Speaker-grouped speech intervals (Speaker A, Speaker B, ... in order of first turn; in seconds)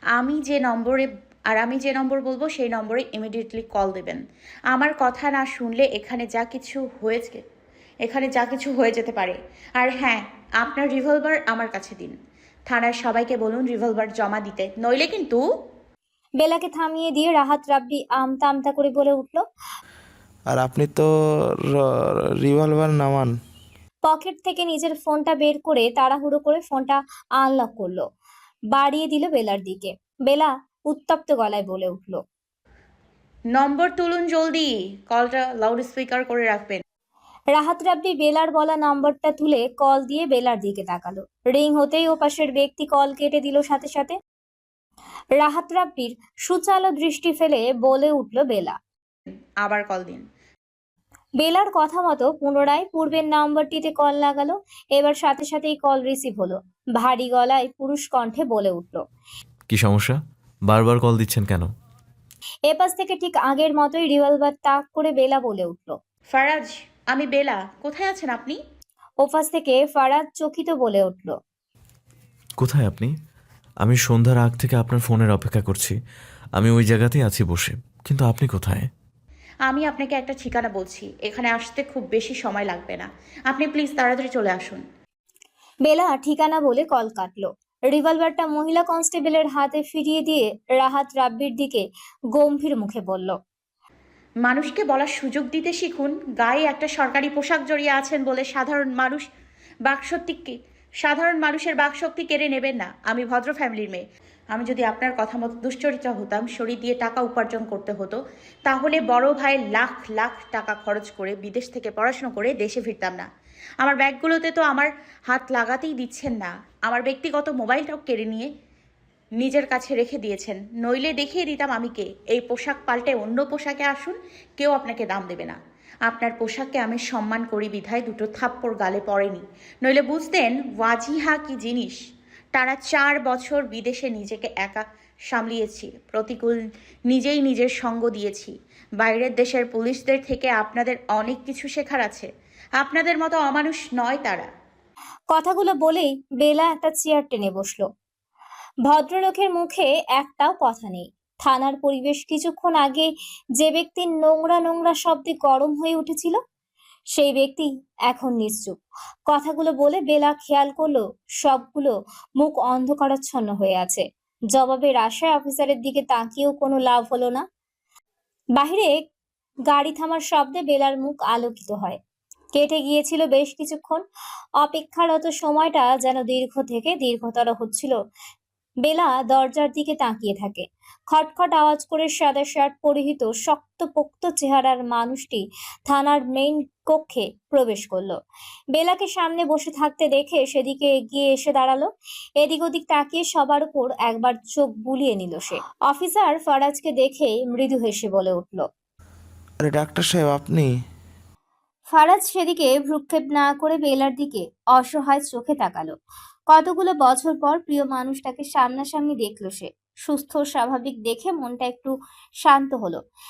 Speaker A: 0.1-4.2, 4.7-7.4, 8.0-12.1, 12.7-15.4, 33.5-36.8, 49.6-50.2, 66.3-68.6, 79.7-84.8, 94.4-99.3, 99.8-113.2, 113.8-118.5, 119.4-132.0, 132.5-144.4
Speaker B: 16.4-19.4, 24.0-28.0, 28.7-32.2, 37.5-44.1, 45.4-48.8, 51.4-59.0, 62.7-66.0, 69.2-71.3, 85.8-93.3, 145.3-147.8, 148.8-156.4, 157.1-158.8, 159.3-167.4, 168.6-169.0, 169.7-172.0, 172.5-174.0, 174.6-177.9, 178.8-188.2, 188.7-191.9, 192.4-198.7, 201.9-205.9, 206.5-213.0
Speaker C: 20.5-21.1, 22.4-23.3, 199.6-200.7
Speaker D: 59.7-61.7, 72.6-73.1, 73.8-75.9, 76.6-78.9